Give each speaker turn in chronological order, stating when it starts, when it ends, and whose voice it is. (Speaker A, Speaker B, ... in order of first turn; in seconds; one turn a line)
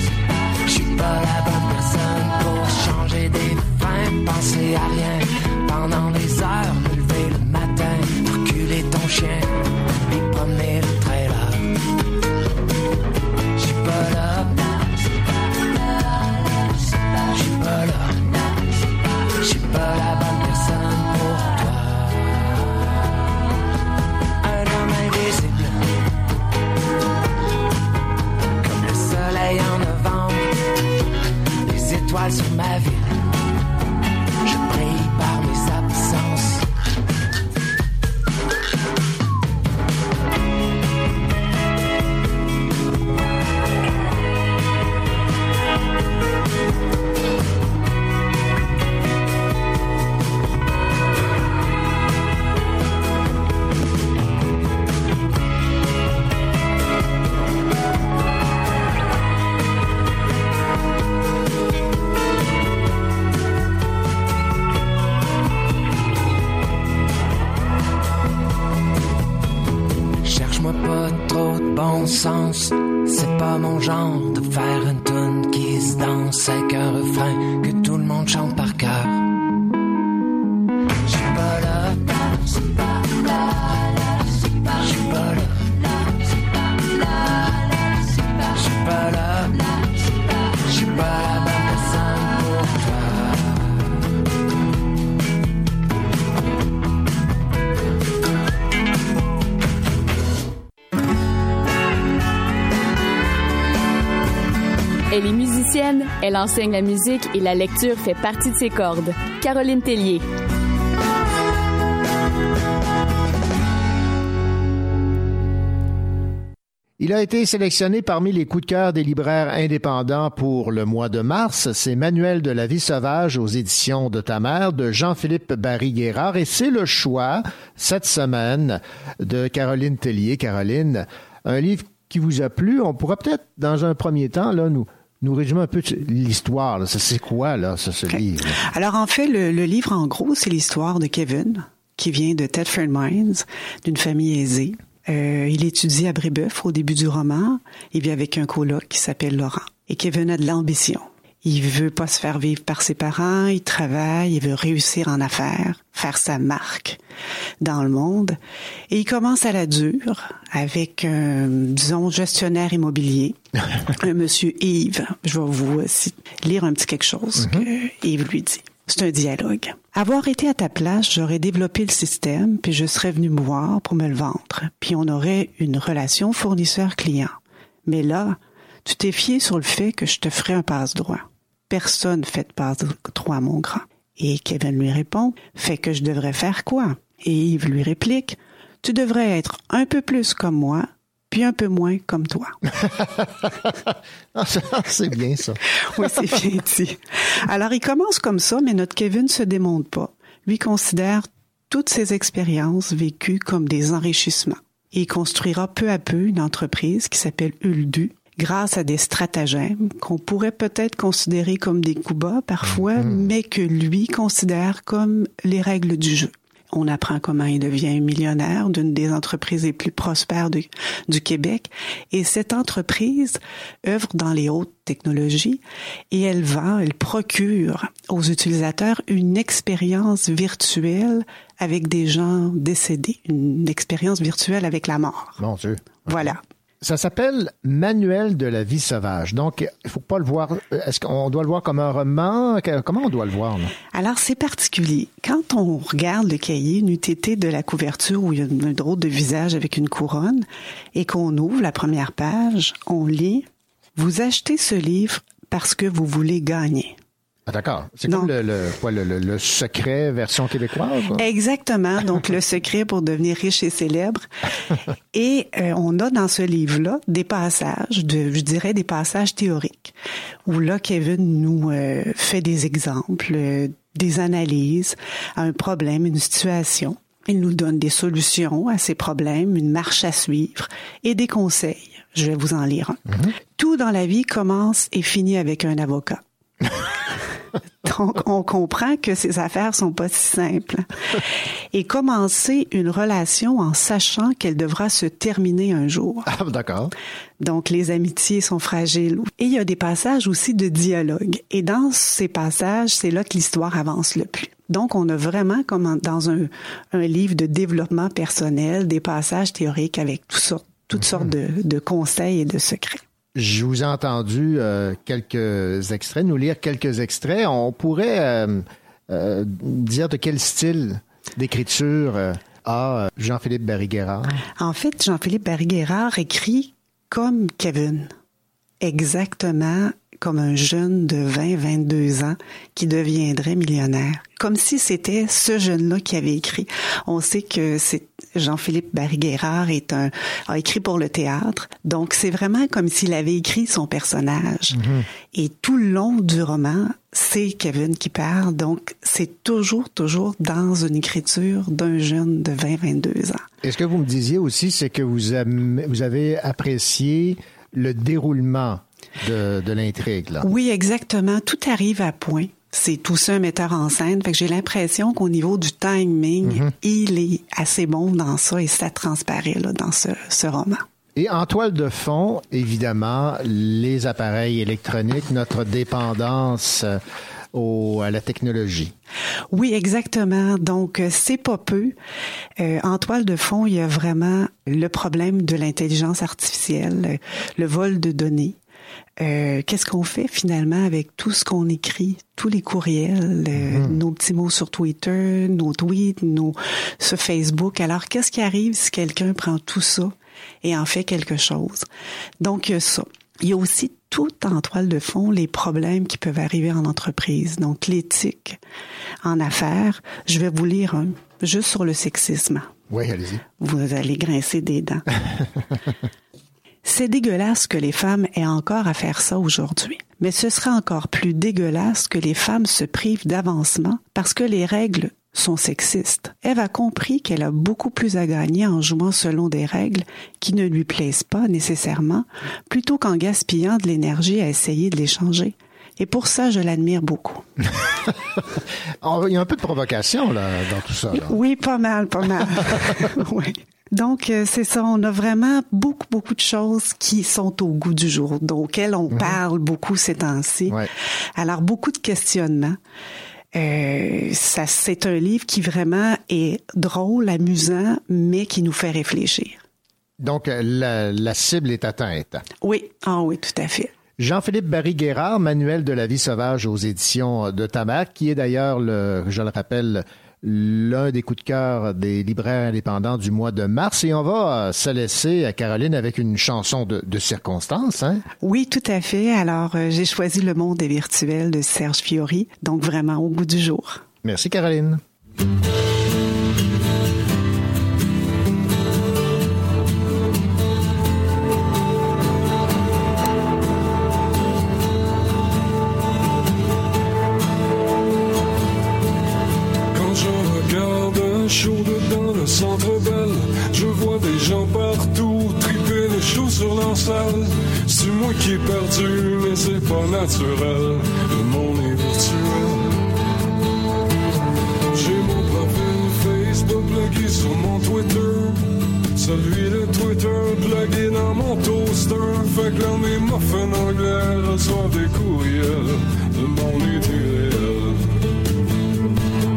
Speaker A: 0.7-11.7
Speaker A: 13.6-14.8
Speaker A: 17.3-18.2
Speaker A: 19.4-22.6
Speaker A: 24.4-25.8
Speaker A: 28.6-30.5
Speaker A: 31.6-33.2
Speaker A: 34.4-36.6
Speaker A: 70.2-79.3
Speaker A: 81.0-82.3
Speaker A: 84.7-85.6
Speaker A: 88.4-89.8
Speaker A: 90.6-93.7
Speaker B: 105.1-110.2
Speaker C: 117.0-138.6
Speaker D: 138.1-157.0
Speaker D: 157.6-158.4
Speaker D: 158.9-163.3
Speaker D: 164.0-192.6
Speaker C: 167.4-167.6
Speaker C: 192.8-196.1
Speaker D: 196.0-235.4
Speaker C: 212.9-213.2
Speaker C: 235.4-243.7
Speaker D: 236.1-236.4
Speaker D: 243.9-256.9
Speaker C: 257.5-261.2
Speaker D: 261.2-264.3
Speaker D: 265.1-269.9
Speaker D: 270.5-283.0
Speaker D: 283.5-286.2
Speaker D: 287.8-290.9
Speaker D: 291.7-296.3
Speaker C: 296.3-296.9
Speaker D: 297.4-313.0
Speaker C: 313.3-324.4
Speaker D: 324.6-328.1
Speaker D: 328.8-344.8
Speaker C: 344.7-345.1
Speaker D: 345.3-353.4
Speaker C: 353.6-360.5
Speaker D: 360.4-370.8
Speaker C: 366.4-366.7
Speaker C: 371.1-377.0
Speaker C: 377.5-378.9
Speaker D: 379.5-381.9
Speaker D: 382.6-388.6
Speaker D: 389.2-401.9
Speaker C: 393.6-393.9
Speaker D: 402.4-408.6
Speaker D: 409.2-412.7
Speaker C: 412.9-413.4
Speaker D: 413.6-415.1
Speaker D: 416.8-437.4
Speaker C: 439.0-441.4
Speaker D: 441.1-450.8
Speaker C: 449.1-449.4
Speaker D: 451.4-452.8
Speaker D: 453.5-459.6
Speaker C: 460.2-462.4
Speaker D: 462.6-463.9
Speaker C: 464.2-478.2
Speaker D: 478.4-484.0
Speaker C: 484.2-485.0
Speaker E: 499.9-513.0
Speaker E: 514.9-528.2